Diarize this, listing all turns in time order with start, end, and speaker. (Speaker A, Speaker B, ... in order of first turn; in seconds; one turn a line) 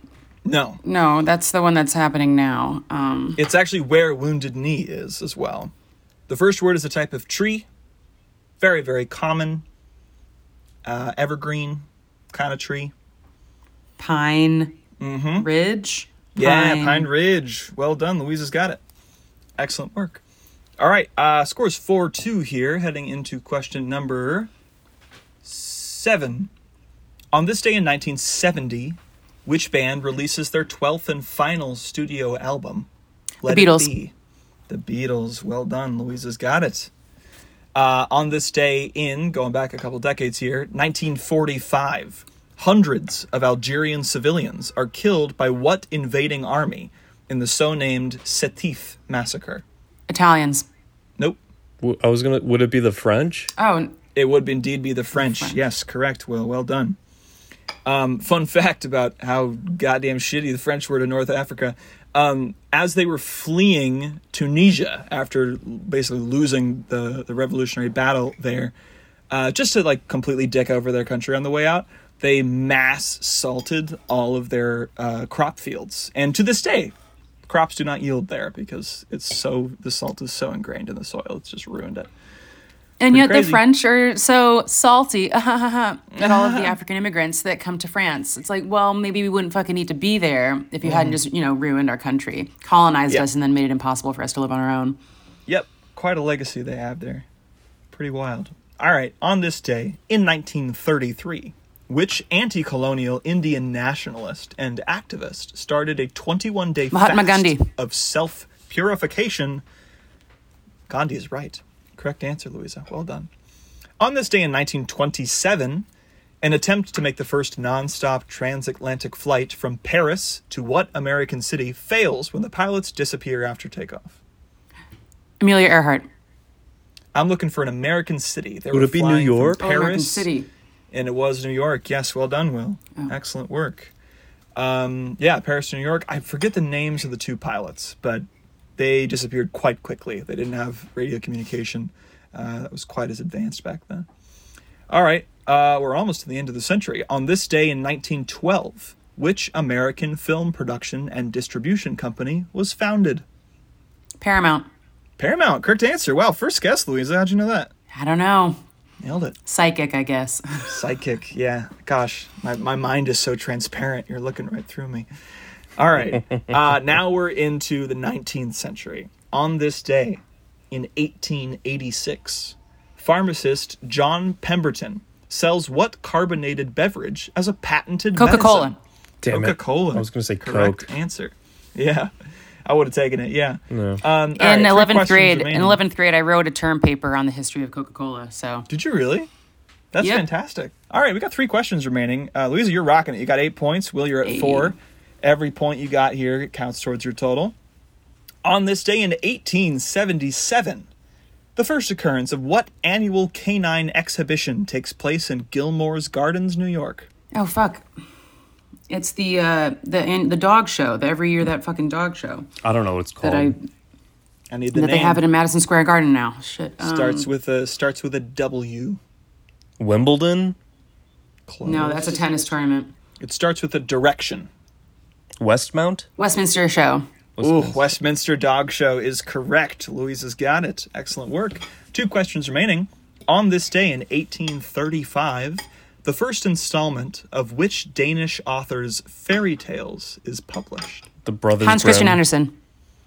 Speaker A: 0.4-0.8
Speaker B: 0.8-3.4
Speaker A: 3.4-5.7
Speaker A: 6.3-7.7
Speaker A: 8.6-9.6
Speaker A: 10.8-12.9
Speaker B: 14.0-14.8
Speaker A: 15.0-15.5
Speaker B: 15.4-17.1
Speaker A: 16.3-18.8
Speaker A: 19.6-20.2
Speaker A: 20.8-24.5
Speaker A: 25.4-26.5
Speaker A: 27.3-32.9
Speaker A: 33.4-34.1
Speaker B: 33.4-33.9
Speaker A: 34.7-36.9
Speaker A: 37.7-49.6
Speaker B: 50.1-50.6
Speaker C: 51.8-53.5
Speaker B: 53.5-53.9
Speaker A: 54.1-57.0
Speaker B: 55.2-55.5
Speaker A: 57.8-68.7
Speaker A: 69.3-76.9
Speaker A: 77.4-82.1
Speaker B: 83.0-95.0
Speaker A: 83.1-83.6
Speaker A: 86.1-86.8
Speaker A: 90.8-91.2
Speaker A: 95.5-97.2
Speaker A: 97.9-109.6
Speaker B: 106.9-107.7
Speaker A: 110.9-113.3
Speaker A: 114.0-115.8
Speaker A: 116.4-124.2
Speaker B: 125.4-126.1
Speaker A: 127.1-130.3
Speaker C: 128.7-129.6
Speaker B: 129.6-130.5
Speaker A: 130.9-133.9
Speaker A: 134.6-138.2
Speaker A: 138.8-144.1
Speaker A: 144.9-153.2
Speaker B: 154.2-154.7
Speaker A: 155.2-157.7
Speaker B: 157.9-158.6
Speaker A: 159.0-159.3
Speaker B: 159.4-160.7
Speaker A: 160.7-165.1
Speaker A: 165.8-182.1
Speaker B: 178.1-178.8
Speaker C: 179.2-180.9
Speaker A: 182.6-185.8
Speaker C: 183.7-184.0
Speaker B: 184.3-188.7
Speaker A: 188.7-189.3
Speaker A: 189.9-197.5
Speaker B: 190.0-190.2
Speaker B: 194.2-194.8
Speaker A: 198.4-200.9
Speaker A: 201.5-207.1
Speaker B: 207.3-207.8
Speaker B: 208.9-212.5
Speaker C: 212.6-213.5
Speaker B: 213.2-213.6
Speaker A: 214.5-215.2
Speaker B: 214.7-217.3
Speaker A: 216.8-219.0
Speaker C: 219.8-220.6
Speaker A: 221.5-222.2
Speaker B: 221.6-222.9
Speaker A: 223.2-224.5
Speaker C: 225.4-226.1
Speaker B: 226.2-227.1
Speaker C: 227.4-227.9
Speaker A: 227.4-241.1
Speaker C: 241.2-242.2
Speaker B: 241.6-242.5